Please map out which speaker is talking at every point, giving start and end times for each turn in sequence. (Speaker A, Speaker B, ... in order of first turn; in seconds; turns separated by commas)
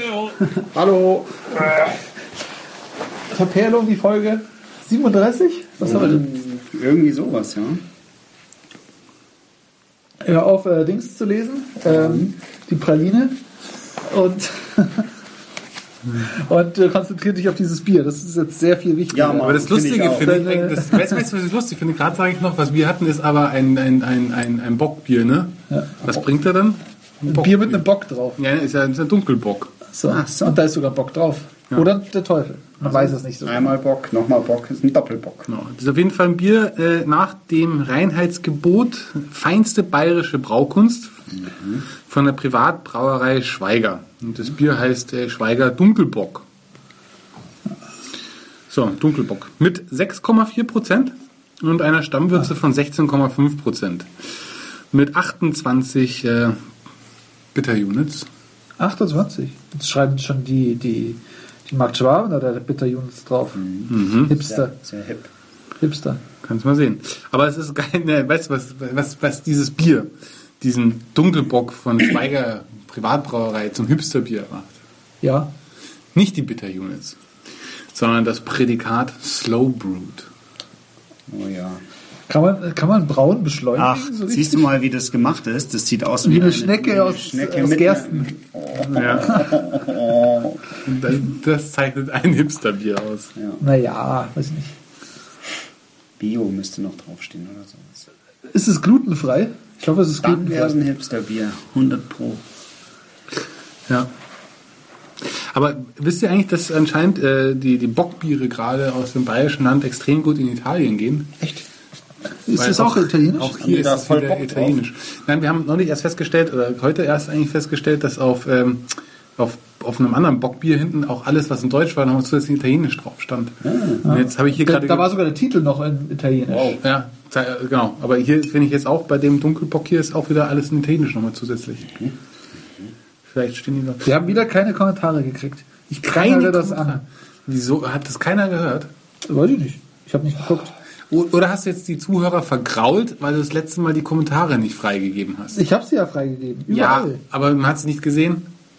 Speaker A: 0.2-1.3, Speaker A: 3.3-6.2, Speaker B: 5.8-7.8, Speaker A: 10.2-13.3, Speaker B: 11.9-12.3, Speaker A: 14.0-15.1, Speaker A: 16.1-19.6, Speaker B: 19.1-20.4, Speaker C: 19.4-27.8, Speaker A: 20.2-21.2, Speaker A: 27.3-28.4, Speaker C: 28.4-29.7, Speaker A: 29.9-33.8, Speaker B: 30.0-30.6, Speaker B: 32.8-35.5, Speaker C: 35.5-41.1, Speaker B: 41.3-41.9, Speaker C: 42.0-46.4, Speaker C: 48.7-54.1, Speaker C: 54.9-56.6, Speaker C: 57.5-58.3, Speaker A: 58.8-63.6, Speaker B: 63.5-65.3, Speaker C: 63.9-64.4, Speaker A: 64.3-64.7, Speaker A: 65.8-66.2, Speaker C: 66.4-70.1, Speaker C: 70.6-74.7, Speaker A: 75.2-75.5, Speaker C: 76.1-77.2, Speaker C: 77.9-80.3, Speaker B: 81.3-81.8, Speaker A: 82.3-84.7, Speaker B: 83.8-90.7, Speaker A: 86.2-88.3, Speaker C: 88.8-89.5, Speaker C: 90.8-93.3, Speaker B: 93.4-93.6, Speaker A: 93.6-94.7, Speaker B: 96.2-98.1, Speaker A: 98.5-100.8, Speaker B: 100.2-102.4, Speaker C: 105.2-111.3, Speaker A: 112.5-113.6, Speaker C: 112.6-125.1, Speaker B: 113.6-114.8, Speaker B: 123.6-124.0, Speaker A: 124.0-126.8, Speaker B: 126.5-126.8, Speaker C: 126.8-131.9, Speaker C: 133.3-134.0, Speaker A: 134.0-137.0, Speaker C: 136.0-138.9, Speaker A: 139.2-140.7, Speaker C: 141.1-145.6, Speaker A: 145.5-147.2, Speaker C: 146.7-148.4